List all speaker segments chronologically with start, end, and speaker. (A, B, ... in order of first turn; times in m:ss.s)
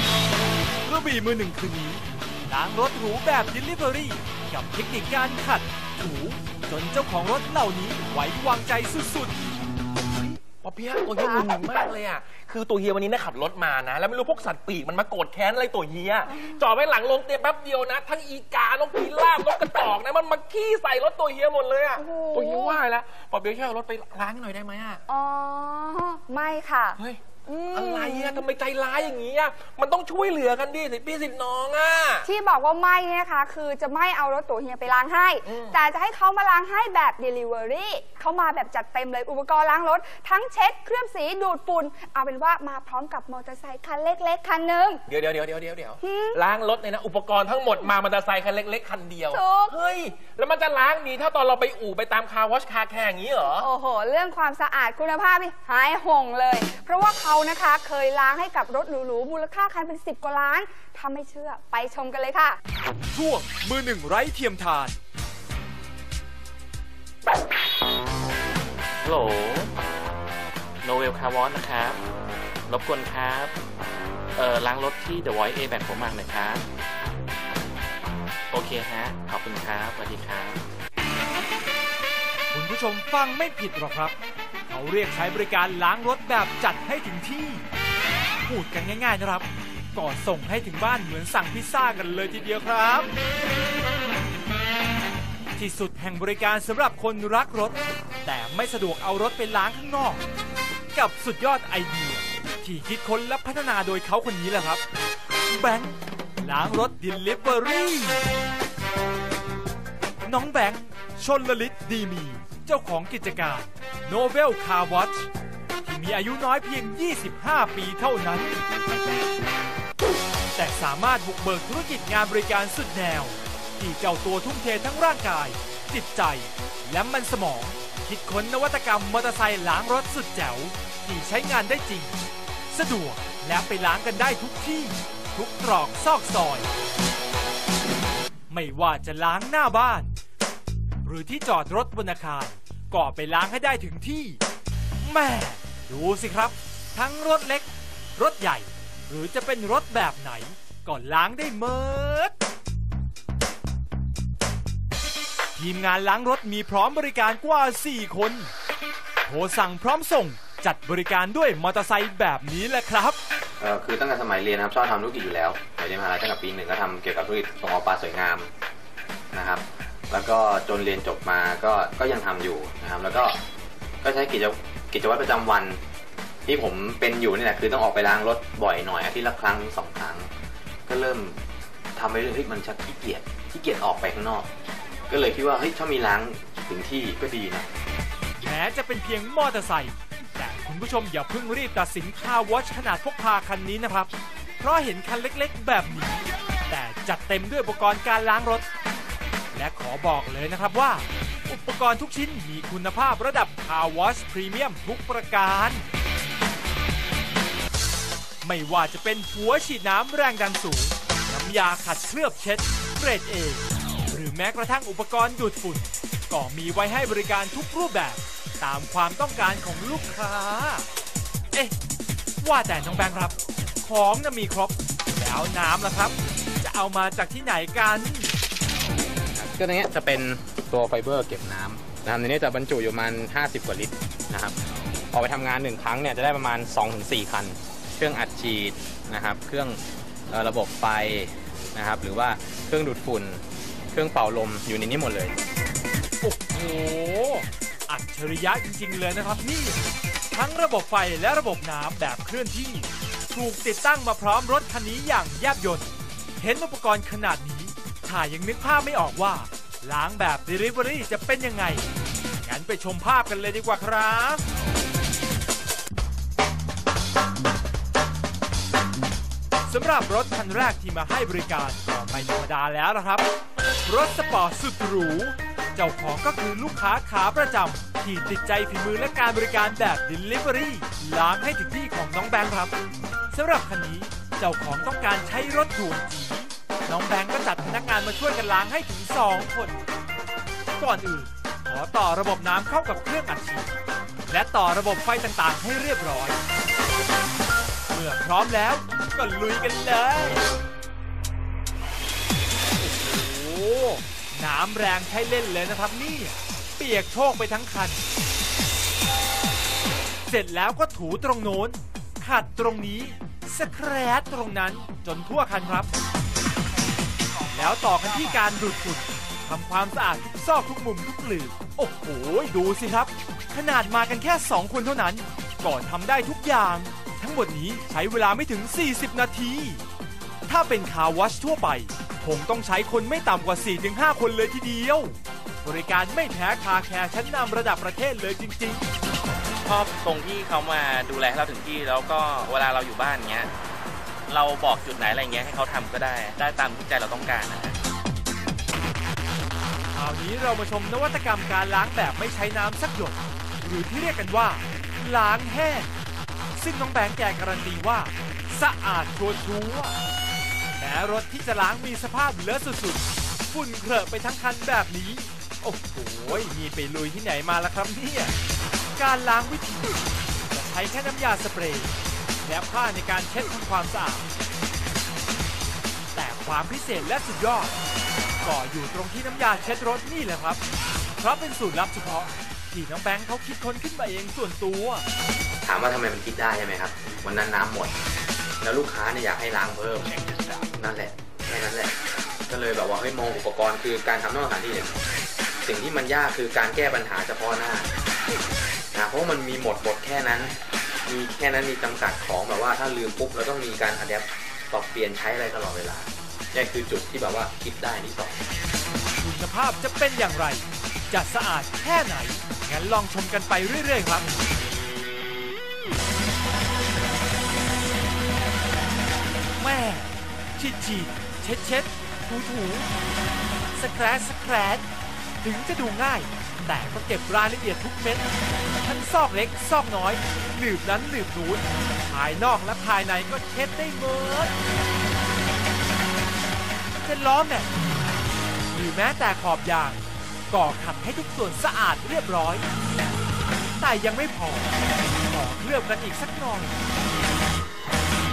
0:00.8-0:09.4 A
0:10.4-0:25.0 B
0:22.0-0:22.8 C
0:25.1-0:28.4 C
0:27.0-0:32.2 B
0:32.2-0:45.0 C
0:35.4-0:35.8 B
0:45.1-0:53.7 B
0:46.0-0:46.4 C
0:49.3-0:49.8 C
0:53.6-1:02.6 C
1:03.1-1:05.0 A
1:09.0-1:09.7 D
1:10.8-1:12.0 D
1:12.7-1:13.5 D
1:14.4-1:16.6 D
1:18.5-1:20.6 D
1:22.5-1:24.2 A
1:24.7-1:27.7 A
1:28.4-1:33.1 A
1:35.6-1:40.2 A
1:40.9-1:44.8 A
1:45.5-1:48.2 A
1:50.2-1:55.3 A
1:55.8-1:58.6 A
2:00.5-2:16.7 A
2:18.5-2:20.1 A
2:21.0-2:24.4 A
2:25.0-2:32.3 A
2:35.5-2:38.5 A
2:39.2-2:43.2 A
2:43.6-2:48.5 E
2:49.3-2:53.4 E
2:54.0-2:55.8 E
2:56.4-3:00.3 E
3:00.9-3:01.4 E
3:01.9-3:04.5 E
3:05.1-3:07.7 E
3:08.4-3:18.6 A
3:19.5-3:25.8 A
3:28.4-3:40.8 A
3:42.4-3:48.3 A
3:49.4-3:54.6 E
3:55.1-4:05.4 E
4:06.2-4:21.9 A
4:22.4-4:24.4 A
4:29.6-4:33.3 A
4:33.8-4:42.7 A
4:43.3-4:49.8 A
4:50.8-4:53.8 A
4:54.3-4:56.4 A
4:57.9-5:00.5 A
5:02.8-5:08.0 A
5:10.2-5:15.9 A
5:17.5-5:29.8 A
5:30.4-5:38.9 A
5:39.6-5:43.5 D
5:44.3-5:47.8 D
5:49.9-5:55.9 A
5:56.5-6:00.0 A
6:00.7-6:08.3 A
6:08.9-6:14.3 A
6:16.1-6:17.8 A
6:18.4-6:20.6 A
6:21.2-6:25.0 A
6:25.6-6:28.0 E
6:28.6-6:30.1 E
6:30.8-6:32.0 E
6:32.5-6:35.0 E
6:35.6-6:37.9 E
6:38.9-6:48.5 E
6:49.1-6:54.4 A
6:59.6-7:02.9 A
7:03.7-7:04.8 A
7:05.4-7:08.3 A
7:08.8-7:14.6 A
7:16.9-7:17.7 A
7:18.7-7:22.7 A
7:23.8-7:24.7 A
7:25.3-7:26.8 A